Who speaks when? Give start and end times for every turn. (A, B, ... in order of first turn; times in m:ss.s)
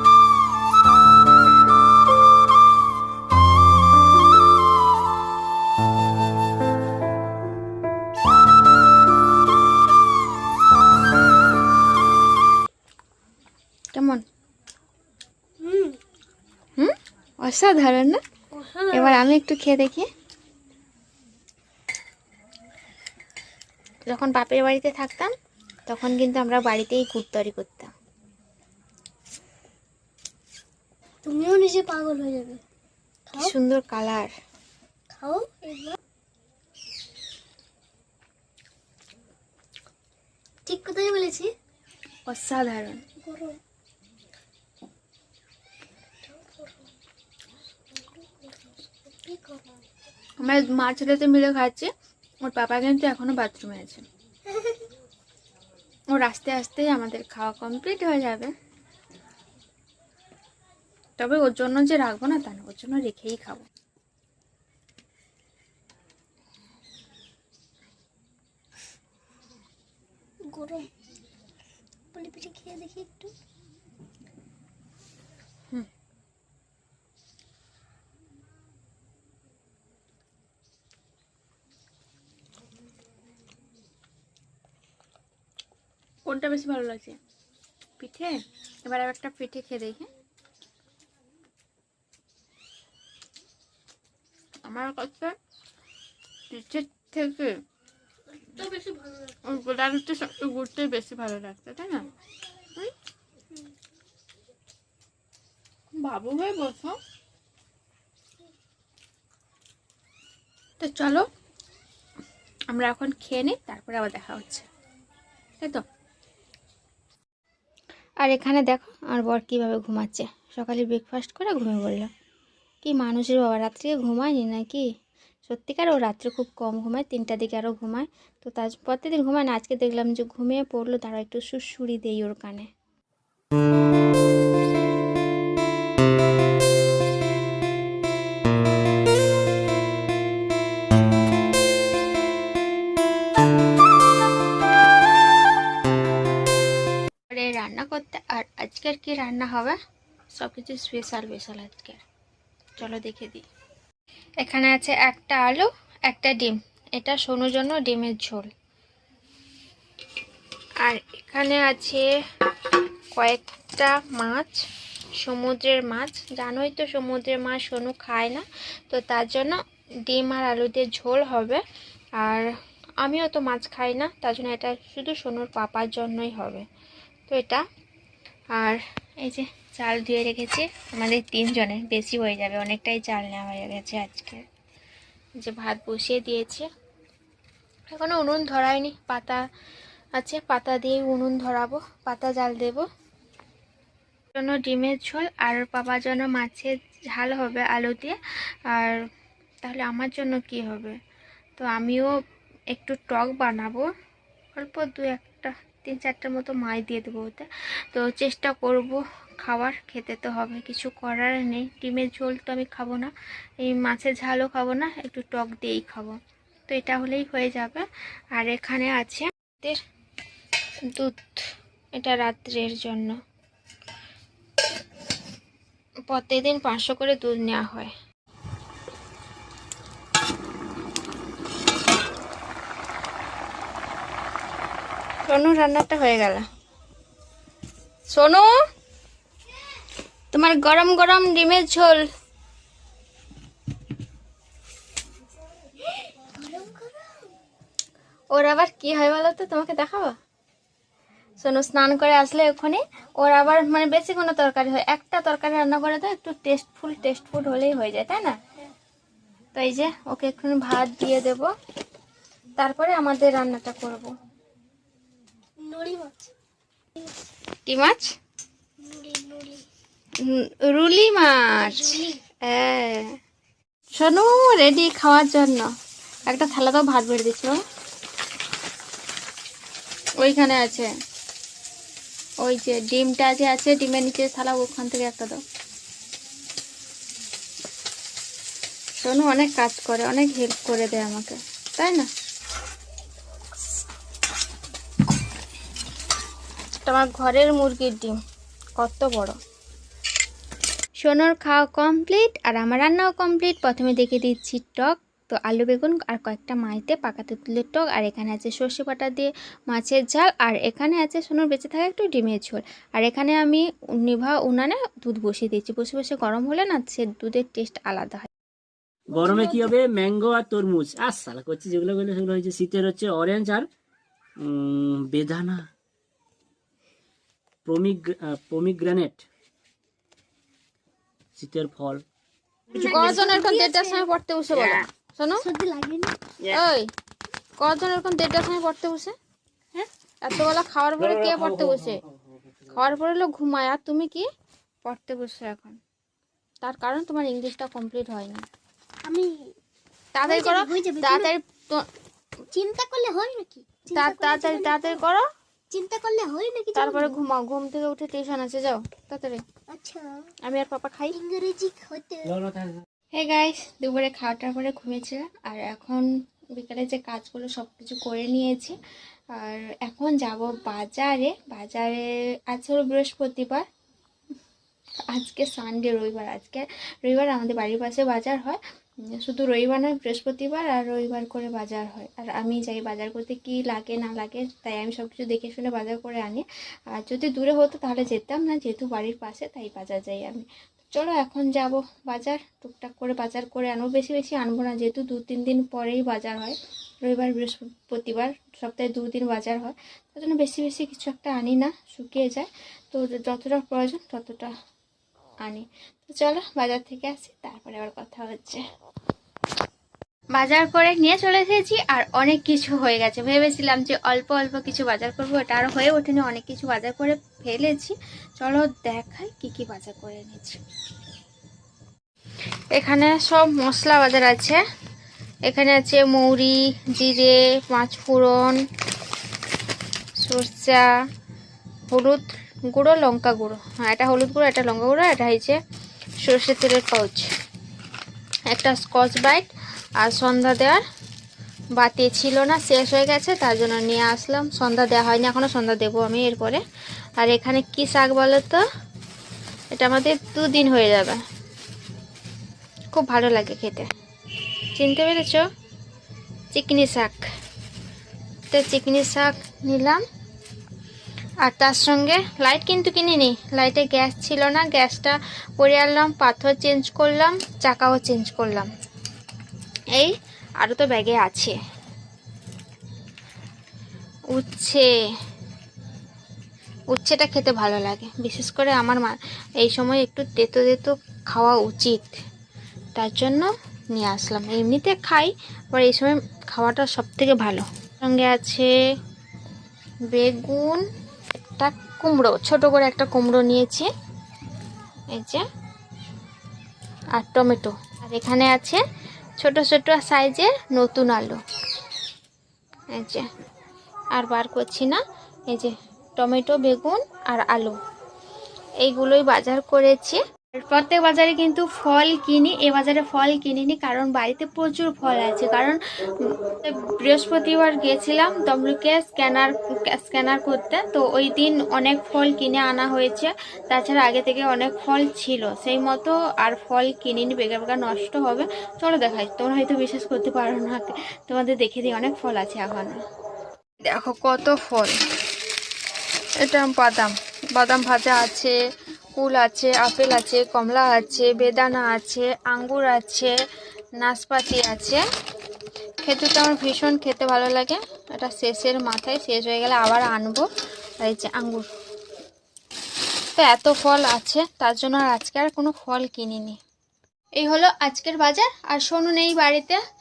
0:13.9-0:14.2 A
0:15.6-0:16.0 B
0:16.8-0:18.2 A
0:18.5-0:19.2 B
0:18.9-0:20.0 A
0:24.1-0:25.3 A
0:25.9-0:27.9 A
0:31.2-0:32.6 B
0:33.3-0:33.5 B
0:33.4-0:34.3 A
0:35.1-0:36.0 B
0:40.6-0:41.5 B
0:42.3-0:43.0 A
0:43.2-0:43.6 B
0:46.2-0:46.8 B
0:47.9-0:49.8 B
0:50.4-0:51.9 A
0:52.4-0:54.0 A
0:54.5-0:54.8 B
0:56.1-0:58.5 A
1:01.2-1:03.7 A
1:10.5-1:10.9 B
1:12.1-1:13.3 B
1:26.3-1:27.2 A
1:28.0-1:30.1 A
1:34.6-1:35.3 A
1:36.5-1:37.6 A
1:38.5-1:39.4 B
1:39.4-1:42.1 A
1:46.0-1:47.0 A
1:50.8-1:51.2 A
1:52.7-1:54.6 A
1:58.2-2:02.1 A
2:02.8-2:04.9 A
2:05.5-2:12.7 A
2:27.3-2:29.8 A
2:30.3-2:32.0 A
2:32.8-2:33.4 A
2:34.4-2:38.5 A
2:40.8-2:42.1 A
2:42.6-2:44.6 A
2:45.2-2:51.6 A
2:52.2-2:52.5 A
2:53.0-2:56.6 A
2:57.3-2:57.6 A
2:58.5-3:04.4 A
3:05.4-3:06.7 A
3:07.9-3:09.4 A
3:10.2-3:12.9 A
3:14.3-3:18.2 A
3:18.7-3:19.0 A
3:19.6-3:21.0 A
3:21.6-3:22.1 A
3:22.7-3:23.8 A
3:24.5-3:33.1 A
3:33.6-3:36.2 A
3:36.7-3:39.8 A
3:40.9-3:41.4 A
3:42.0-3:43.1 A
3:46.1-3:47.9 A
3:55.3-3:56.5 A
3:58.1-3:58.5 A
4:00.3-4:02.1 A
4:06.1-4:07.3 B
4:08.3-4:10.1 A
4:11.4-4:18.3 A
4:19.5-4:21.5 A
4:22.6-4:24.1 A
4:25.6-4:26.3 B
4:27.6-4:28.1 A
4:28.8-4:29.6 B
4:30.2-4:33.1 A
4:31.6-4:32.2 B
4:33.9-4:35.7 A
4:36.3-4:37.6 A
4:40.2-4:40.9 A
4:42.4-4:45.4 A
4:49.0-4:52.1 A
4:56.8-4:58.1 A
4:58.8-4:59.4 A
5:01.0-5:18.3 A
5:19.1-5:23.7 C
5:24.4-5:25.7 C
5:27.6-5:29.3 C
5:31.4-5:32.0 C
5:32.7-5:34.0 B
5:32.7-5:35.5 A
5:35.4-5:36.2 B
5:36.4-5:36.9 A
5:37.6-5:39.2 A
5:39.7-5:42.0 A
5:41.0-5:41.9 C
5:42.7-5:44.2 A
5:44.8-5:45.8 A
5:46.6-5:48.4 A
5:49.0-5:49.3 B
5:50.1-5:51.9 A
5:50.2-5:51.3 B
5:52.5-5:55.0 B
5:53.9-5:55.2 A
5:55.7-5:57.1 B
5:56.8-5:59.4 A
5:59.7-6:00.1 B
6:00.4-6:01.2 A
6:01.1-6:02.4 B
6:02.3-6:02.8 C
6:03.1-6:08.7 A
6:09.3-6:13.6 A
6:15.1-6:18.6 A
6:19.1-6:44.5 A
6:45.4-6:48.6 A
6:50.3-7:00.6 A
7:02.7-7:04.6 A
7:05.5-7:08.6 A
7:10.2-7:10.9 A
7:11.9-7:15.6 A
7:16.2-7:17.3 A
7:18.5-7:19.5 A
7:20.0-7:20.8 A
7:21.7-7:26.6 A
7:27.2-7:28.6 A
7:29.7-7:31.2 A
7:32.9-7:33.8 A
7:34.7-7:35.4 A
7:36.5-7:37.2 A
7:38.5-7:40.0 A
7:41.4-7:48.7 A
7:49.9-7:51.5 A
7:54.3-7:54.8 A
7:56.9-8:02.1 A
8:02.9-8:08.7 A
8:10.1-8:10.8 A
8:11.6-8:13.9 A
8:15.1-8:15.4 A
8:17.1-8:18.8 A
8:19.4-8:21.4 A
8:22.9-8:23.2 A
8:24.1-8:27.8 A
8:28.8-8:53.0 A
8:53.9-8:54.9 A
8:56.4-8:58.6 A
8:59.1-9:03.3 A
9:04.0-9:05.0 A
9:06.0-9:10.5 A
9:11.0-9:11.7 A
9:13.3-9:16.6 A
9:17.4-9:19.8 A